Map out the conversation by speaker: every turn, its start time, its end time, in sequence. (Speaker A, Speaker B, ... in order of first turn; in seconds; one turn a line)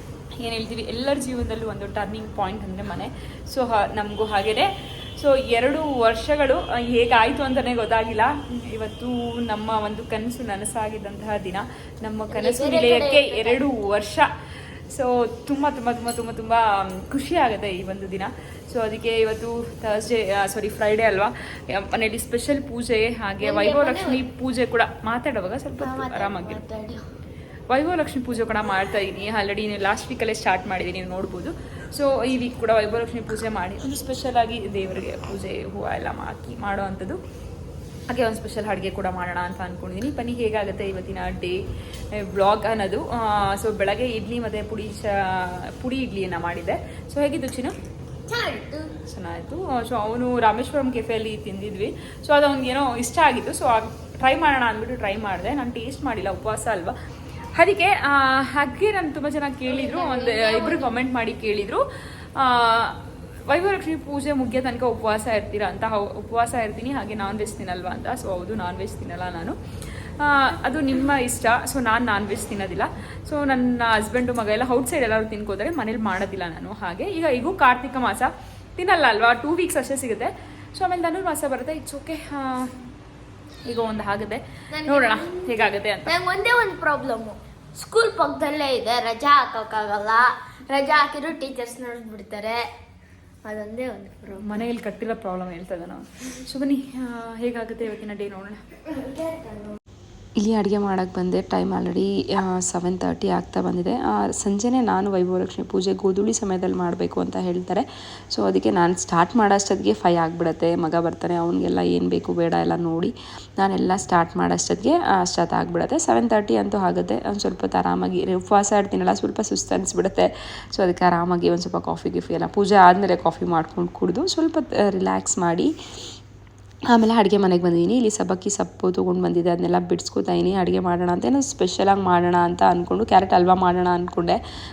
Speaker A: 0.4-14.3
Speaker B: 12.3-13.6
Speaker A: 14.9-26.6
Speaker B: 23.4-24.2
Speaker B: 25.8-27.0
Speaker A: 27.7-37.2
Speaker A: 38.1-47.8
Speaker B: 48.3-48.9
Speaker A: 49.1-56.9
Speaker A: 57.5-61.8
Speaker B: 59.7-61.0
Speaker A: 62.4-69.5
Speaker A: 70.2-82.7
Speaker A: 83.7-86.1
Speaker B: 84.7-85.5
Speaker B: 86.0-92.6
Speaker B: 93.4-94.6
Speaker A: 94.4-98.6
Speaker B: 98.9-99.8
Speaker C: 100.4-125.7
Speaker C: 126.9-134.4